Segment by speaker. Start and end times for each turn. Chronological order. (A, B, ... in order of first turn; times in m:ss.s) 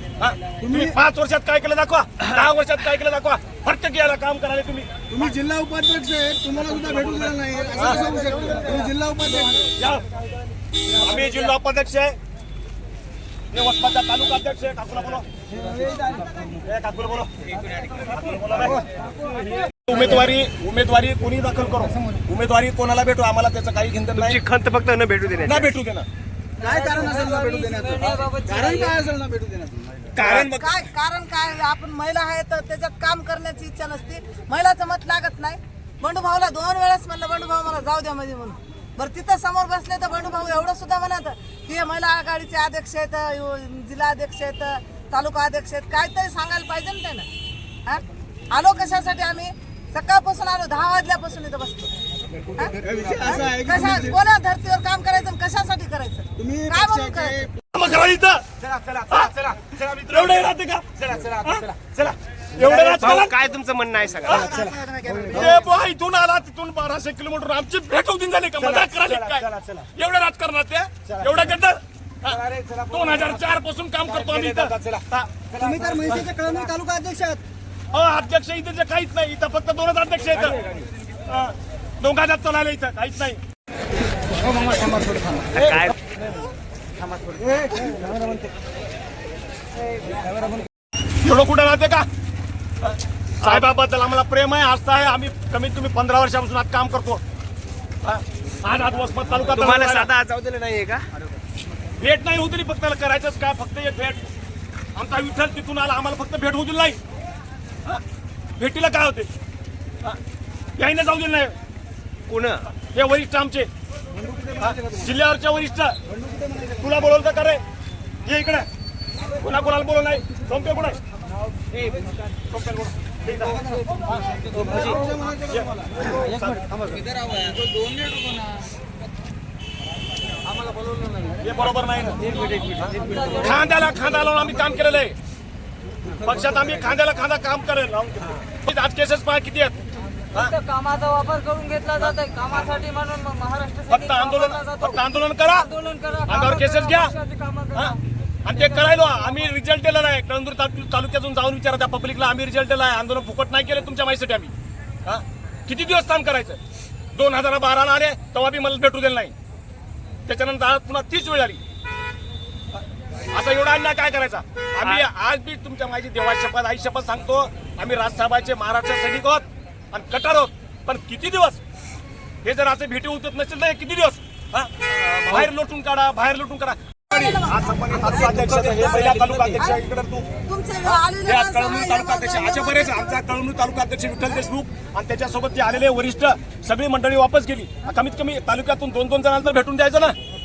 0:00.2-0:04.9 A
0:00.6-0:01.0 B
0:05.1-0:09.7 B
0:07.8-0:08.0 A
0:09.8-0:10.0 A
0:10.9-0:12.2 A
0:13.5-0:15.3 A
0:15.6-0:16.3 B
0:16.6-0:17.3 A
0:18.0-0:18.8 A
0:19.8-0:24.4 A
0:24.2-0:25.7 C
0:25.4-0:26.1 A
0:26.6-0:29.8 B
0:26.6-0:29.0 D
0:30.1-0:30.8 A
0:30.2-0:47.3 E
0:47.9-0:51.9 E
0:52.6-0:57.4 E
0:52.8-0:54.2 B
0:56.4-0:57.5 B
0:57.7-0:58.4 A
0:59.1-1:01.7 A
1:02.5-1:03.4 A
1:02.7-1:04.4 C
1:04.3-1:05.7 E
1:05.3-1:15.3 A
1:14.4-1:15.0 C
1:15.5-1:17.4 B
1:17.9-1:20.6 A
1:21.3-1:23.4 A
1:24.7-1:25.2 B
1:25.5-1:25.9 A
1:25.6-1:26.0 C
1:27.6-1:28.0 B
1:31.2-1:32.1 A
1:32.8-1:37.2 A
1:38.0-1:40.1 A
1:39.5-1:41.1 C
1:42.0-1:44.3 A
1:45.0-1:47.0 A
1:48.6-1:49.3 A
1:50.8-1:51.6 A
1:52.3-1:52.6 C
1:52.8-1:53.7 A
1:54.2-1:55.0 B
1:54.6-1:56.0 A
1:56.3-1:56.6 B
1:56.7-1:57.6 A
1:58.2-1:58.7 A
1:59.4-2:01.0 A
2:02.5-2:04.2 A
2:04.5-2:06.0 B
2:05.5-2:06.7 A
2:07.2-2:08.2 B
2:11.4-2:15.2 A
2:13.0-2:13.6 D
2:16.1-2:19.8 A
2:20.4-2:25.0 D
2:23.9-2:25.7 A
2:25.5-2:27.9 D
2:26.3-2:27.2 A
2:27.7-2:34.5 A
2:35.0-2:36.6 A
2:37.1-2:39.3 A
2:40.3-2:41.6 A
2:43.3-2:51.6 A
2:52.4-3:00.3 A
2:57.1-2:59.0 E
2:58.0-2:59.6 C
3:00.5-3:03.2 E
3:00.8-3:10.2 A